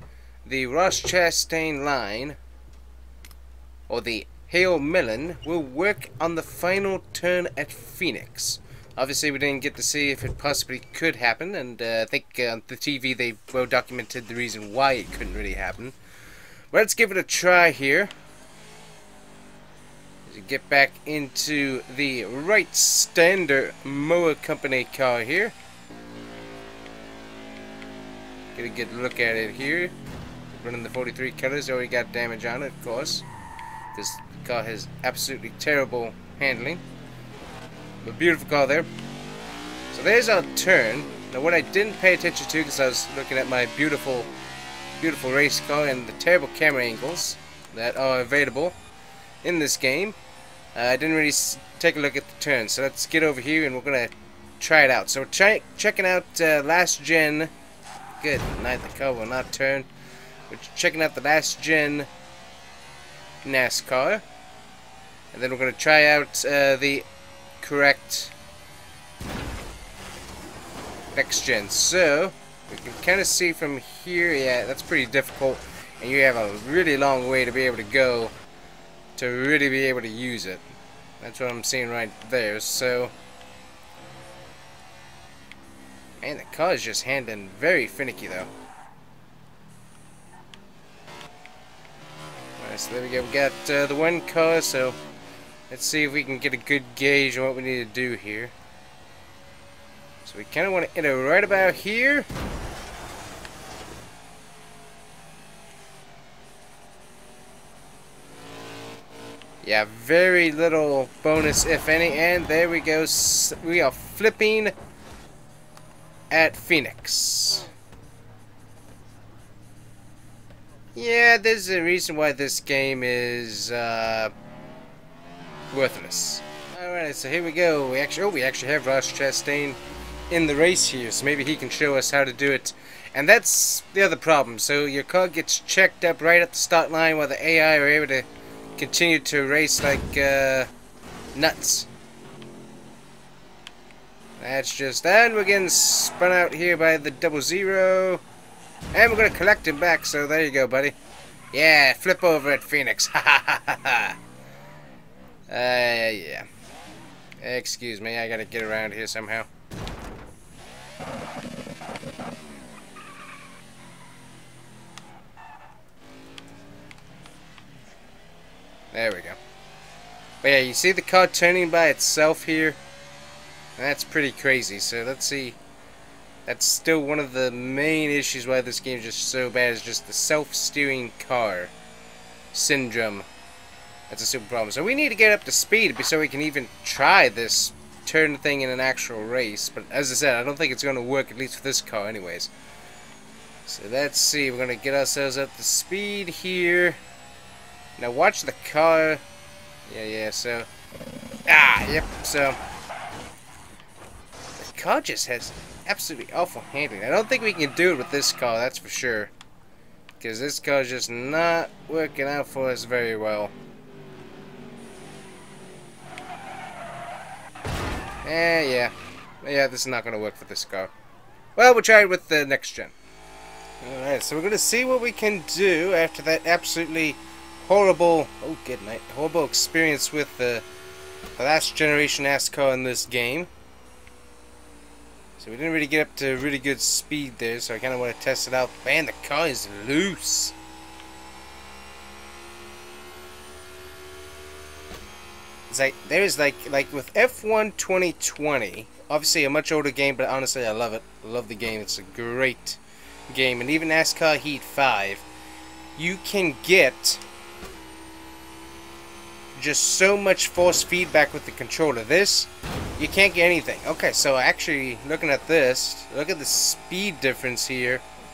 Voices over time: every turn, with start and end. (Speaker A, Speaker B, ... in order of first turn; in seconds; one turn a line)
Speaker A: 0.4-2.4
Speaker A: 3.9-15.9
Speaker A: 16.7-18.1
Speaker A: 20.2-25.6
Speaker A: 28.5-29.9
Speaker A: 30.5-33.2
Speaker A: 33.9-36.8
Speaker A: 38.0-38.9
Speaker A: 39.9-44.3
Speaker A: 45.0-48.8
Speaker A: 49.4-50.2
Speaker A: 50.7-57.5
Speaker A: 58.2-59.9
Speaker A: 60.5-62.1
Speaker A: 63.4-64.2
Speaker A: 65.3-67.1
Speaker A: 67.6-68.3
Speaker A: 71.1-78.3
Speaker A: 79.2-80.6
Speaker A: 81.2-83.1
Speaker A: 86.2-88.5
Speaker A: 92.6-95.0
Speaker A: 95.7-98.5
Speaker A: 100.2-102.3
Speaker A: 109.6-114.7
Speaker A: 116.3-117.7
Speaker A: 120.9-124.3
Speaker A: 125.7-140.7
Speaker A: 141.3-141.9
Speaker A: 144.4-148.2
Speaker A: 148.9-150.9
Speaker A: 151.5-154.2
Speaker A: 155.5-156.5
Speaker A: 157.4-159.5
Speaker A: 168.9-169.4
Speaker A: 170.4-172.8
Speaker A: 173.8-175.6
Speaker A: 176.4-181.7
Speaker A: 182.5-183.3
Speaker A: 184.1-192.5
Speaker A: 193.7-197.0
Speaker A: 198.0-199.2
Speaker A: 199.8-200.7
Speaker A: 201.5-202.6
Speaker A: 204.6-209.3
Speaker A: 210.2-213.5
Speaker A: 218.2-220.9
Speaker A: 221.6-222.9
Speaker A: 223.8-230.7
Speaker A: 231.4-233.5
Speaker A: 235.4-240.5
Speaker A: 245.7-255.2
Speaker A: 255.9-257.2
Speaker A: 259.5-268.0